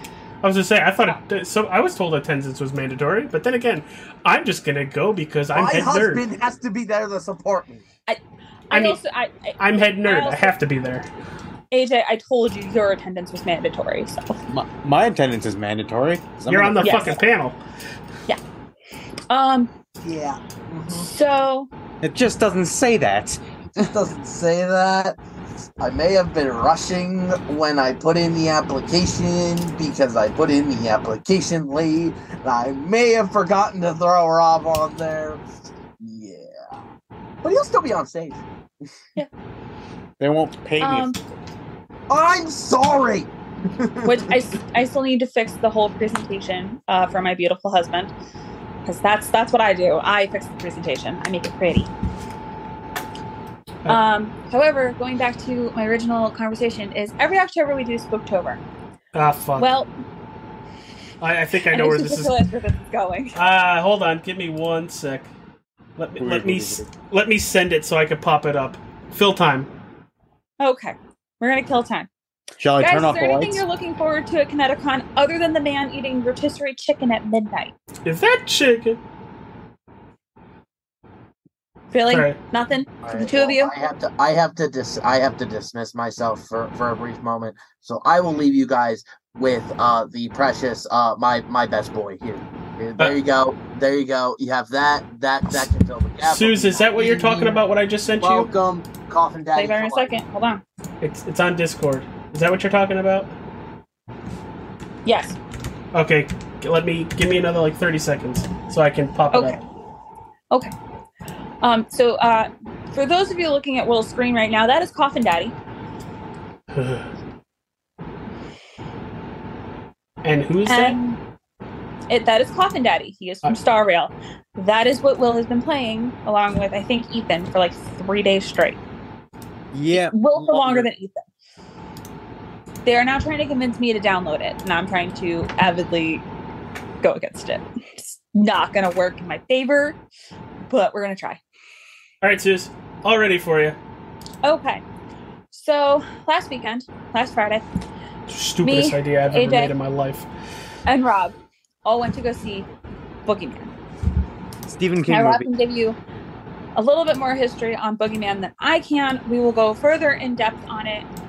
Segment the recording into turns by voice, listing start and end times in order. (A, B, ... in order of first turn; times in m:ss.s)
0:00.4-0:06.2 A
0:05.5-0:07.8 B
0:08.1-0:10.6 C
0:08.7-0:09.0 A
0:09.6-0:11.1 A
0:11.7-0:14.4 C
0:14.5-0:17.2 D
0:16.5-0:17.6 A
0:16.8-0:17.2 C
0:19.3-0:19.7 C
0:20.0-0:21.1 B
0:20.9-0:21.7 C
0:22.0-0:23.9 D
0:23.8-0:25.2 B
0:25.8-0:35.4 B
0:36.0-0:36.6 B
0:37.4-0:38.4 B
0:40.2-0:41.1 D
0:40.8-0:41.2 C
0:42.1-0:44.1 B
0:44.0-0:48.1 C
0:48.8-0:51.9 C
0:53.9-0:58.6 C
0:59.1-0:59.7 A
0:59.6-0:59.9 C
1:01.2-1:02.4 A
1:01.7-1:03.4 C
1:03.4-1:05.3 A
1:06.0-1:09.7 A
1:06.2-1:06.9 D
1:10.6-1:12.1 C
1:12.6-1:13.6 D
1:12.8-1:17.7 C
1:18.0-1:19.0 A
1:21.9-1:23.7 C
1:22.1-1:22.4 A
1:23.0-1:37.6 B
1:36.2-1:38.5 A
1:38.2-1:40.1 B
1:39.6-1:40.6 C
1:41.0-1:43.3 A
1:45.0-1:45.4 C
1:45.9-1:49.6 A
1:49.3-1:49.6 C
1:51.6-1:55.6 C
1:56.7-1:57.1 A
2:00.2-2:01.0 A
2:00.7-2:01.2 C
2:02.1-2:08.8 C
2:09.7-2:10.9 D
2:09.9-2:11.2 C
2:12.8-2:16.2 C
2:17.0-2:20.0 C
2:20.7-2:21.4 C
2:22.2-2:23.8 A
2:24.4-2:24.8 C
2:25.5-2:27.6 C
2:28.3-2:30.3 A
2:28.6-2:29.7 C
2:30.9-2:32.7 C
2:33.3-2:33.7 C
2:34.7-2:35.5 D
2:35.1-2:36.0 C
2:36.8-2:41.1 C